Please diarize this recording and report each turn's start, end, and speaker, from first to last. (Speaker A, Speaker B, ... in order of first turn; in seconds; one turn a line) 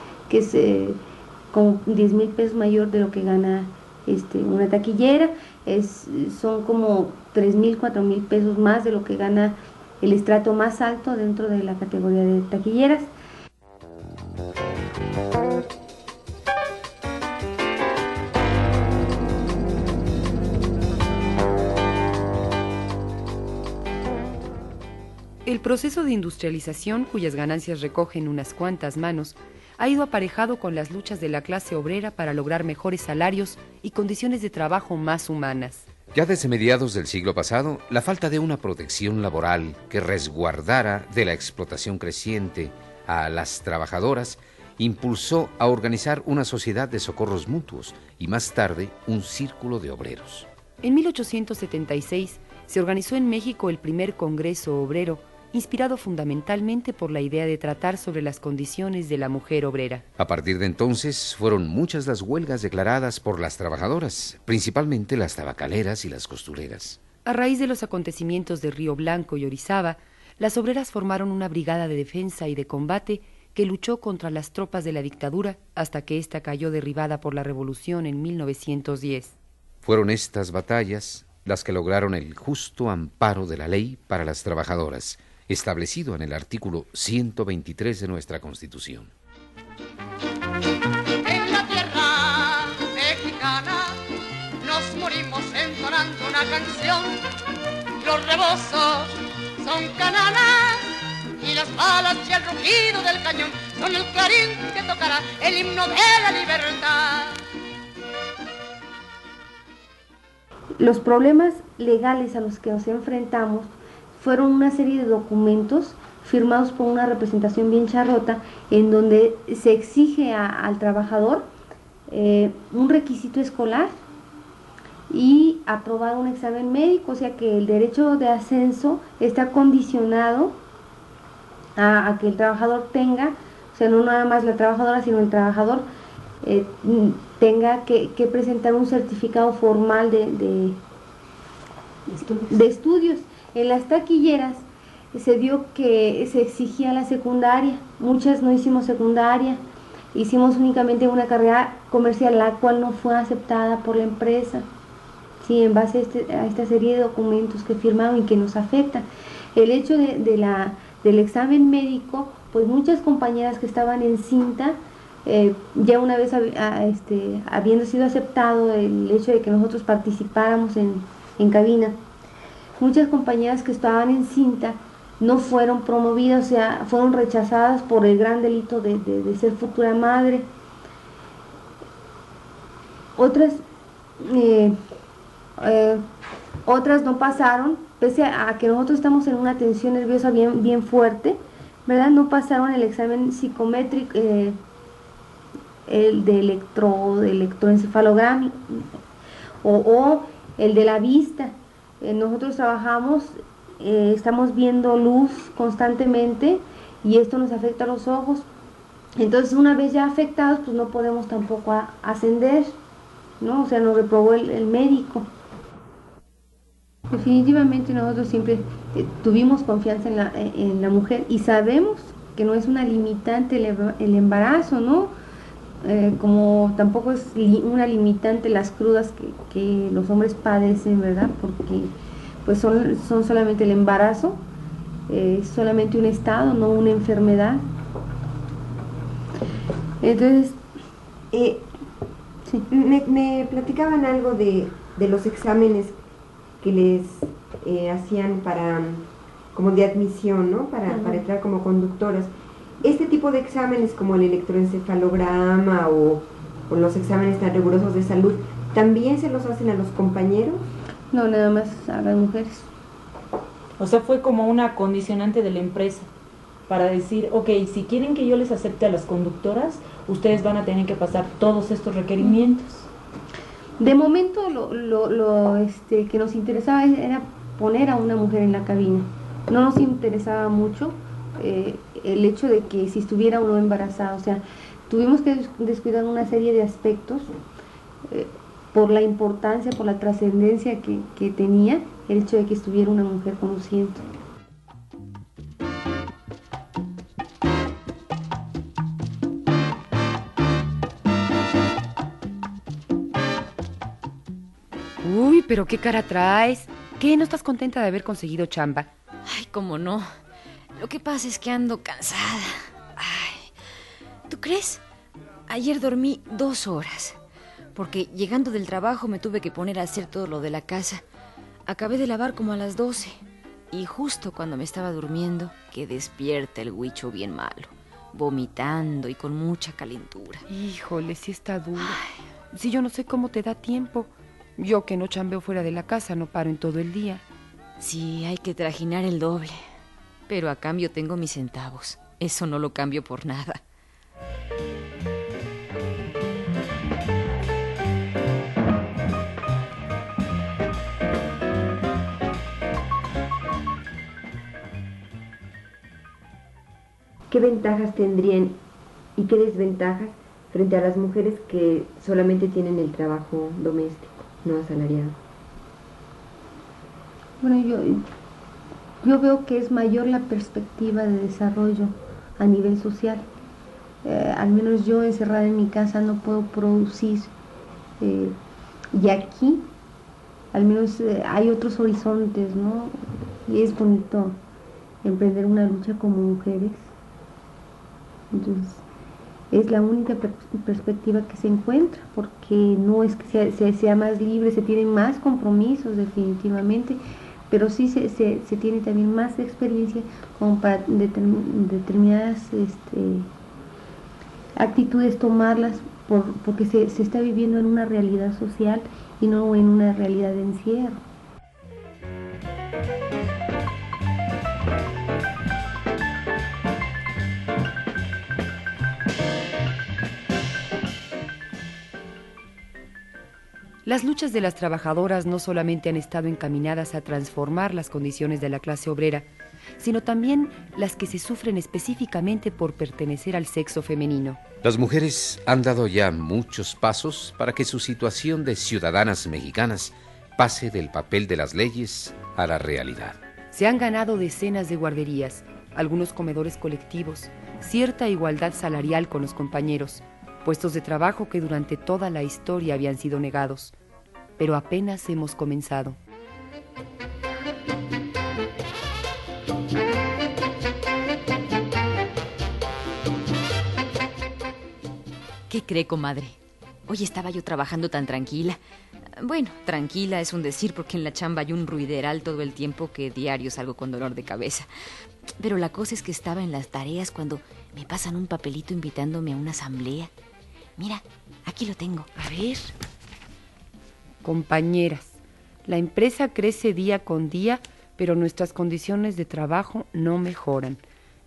Speaker A: 0.3-13.1
Speaker B: 25.4-35.8
Speaker C: 36.1-50.5
Speaker B: 50.8-60.0
Speaker C: 60.2-67.0
Speaker B: 67.2-79.3
Speaker C: 79.8-89.1
Speaker D: 91.2-94.0
Speaker D: 94.6-97.2
Speaker D: 98.0-107.4
Speaker A: 110.8-121.5
Speaker A: 122.1-123.9
Speaker A: 125.1-130.6
Speaker A: 131.8-135.9
Speaker A: 136.4-140.8
Speaker A: 142.4-149.6
Speaker A: 150.1-154.7
Speaker A: 155.4-172.0
Speaker A: 172.8-180.5
Speaker A: 183.2-183.6
Speaker A: 184.2-184.8
Speaker A: 185.6-186.0
Speaker A: 186.6-194.6
Speaker A: 195.9-198.9
Speaker A: 199.6-208.5
Speaker A: 209.2-212.8
Speaker A: 213.4-215.3
Speaker A: 217.1-225.1
Speaker A: 225.8-234.4
Speaker A: 235.1-237.6
Speaker A: 240.0-240.6
Speaker E: 241.3-241.6
Speaker E: 242.7-246.0
Speaker E: 246.6-252.3
Speaker A: 250.9-251.2
Speaker E: 252.8-260.6
Speaker A: 261.1-262.7
Speaker F: 263.8-266.1
Speaker F: 266.7-272.9
Speaker A: 273.8-287.3
Speaker A: 288.1-294.1
Speaker B: 305.0-308.9
Speaker G: 309.2-310.1
Speaker G: 310.8-313.5
Speaker G: 314.3-314.8
Speaker G: 315.5-317.2
Speaker G: 317.7-321.0
Speaker G: 321.7-330.4
Speaker B: 330.5-332.0
Speaker G: 331.8-332.1
Speaker B: 332.5-337.2
Speaker G: 337.8-339.6
Speaker G: 340.3-343.6
Speaker E: 357.3-358.6
Speaker E: 359.2-365.1
Speaker A: 367.4-368.0
Speaker A: 369.0-373.2
Speaker A: 374.0-377.3
Speaker A: 378.0-378.4
Speaker A: 378.9-379.7
Speaker A: 380.5-384.4
Speaker A: 385.0-386.9
Speaker A: 388.3-388.8
Speaker A: 389.5-403.3
Speaker A: 404.6-411.0
Speaker B: 423.8-429.2
Speaker B: 429.8-434.4
Speaker C: 434.6-443.2
Speaker B: 443.5-453.7
Speaker B: 454.4-456.0
Speaker G: 465.5-468.6
Speaker G: 469.2-474.7
Speaker G: 475.4-480.1
Speaker G: 480.8-482.1
Speaker B: 482.1-482.7
Speaker B: 484.2-490.8